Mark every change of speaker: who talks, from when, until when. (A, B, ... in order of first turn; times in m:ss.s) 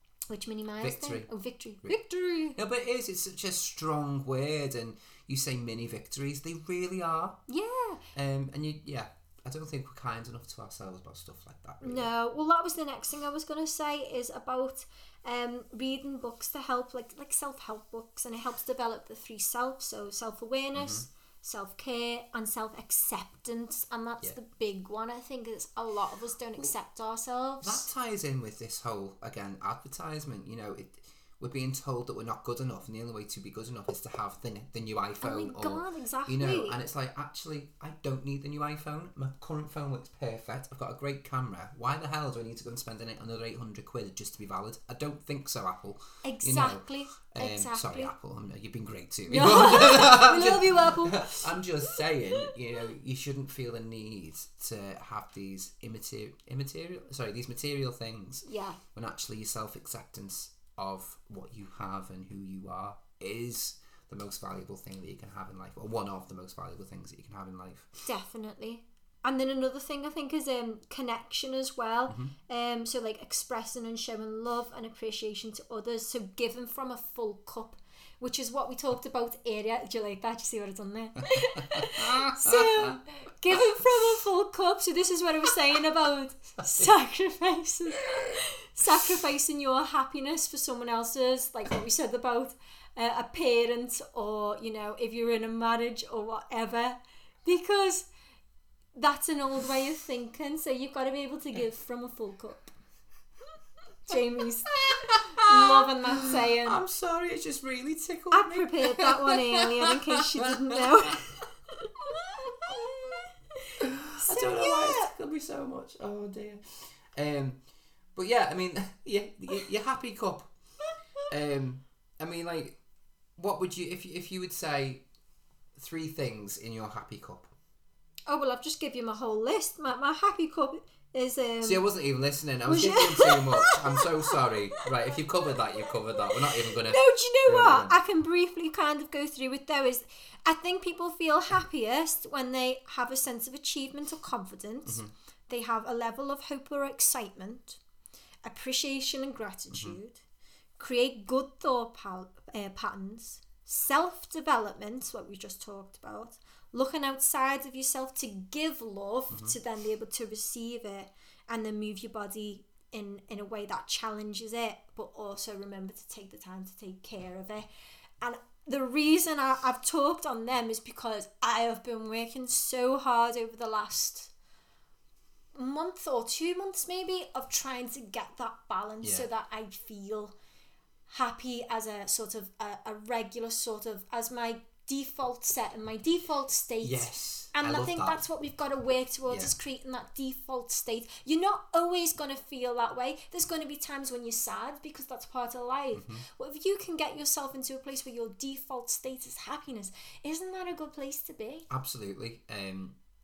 0:00.3-0:02.6 A
0:00.8-0:01.3 B
0:02.6-0:07.4 B
0:07.5-0:08.1 A
0:08.1-0:12.1 B
0:11.8-0:27.9 A
0:20.8-0:21.1 B
0:27.6-1:08.0 B
0:35.2-0:36.8 A
0:46.2-0:48.1 A
0:49.3-0:52.5 A
0:58.4-0:58.8 A
1:08.1-1:38.1 A
1:21.3-1:23.0 B
1:39.0-1:42.7 A
1:44.1-1:46.8 A
1:44.8-1:50.9 B
1:48.3-1:53.2 A
1:53.8-1:57.6 B
1:54.2-1:55.1 A
1:58.2-2:00.5 B
2:01.3-2:02.8 B
2:03.4-2:05.0 B
2:05.8-2:07.5 B
2:08.3-2:11.9 A
2:11.6-2:17.9 B
2:12.7-2:14.9 A
2:15.9-2:27.8 A
2:28.4-2:30.2 A
2:29.7-2:30.0 B
2:30.8-2:47.7 A
2:39.3-2:39.6 B
2:48.2-2:54.3 A
2:55.6-3:00.4 A
2:59.0-2:59.3 B
3:01.1-3:21.7 A
3:06.8-3:08.2 B
3:15.9-3:16.3 B
3:21.7-3:23.0 B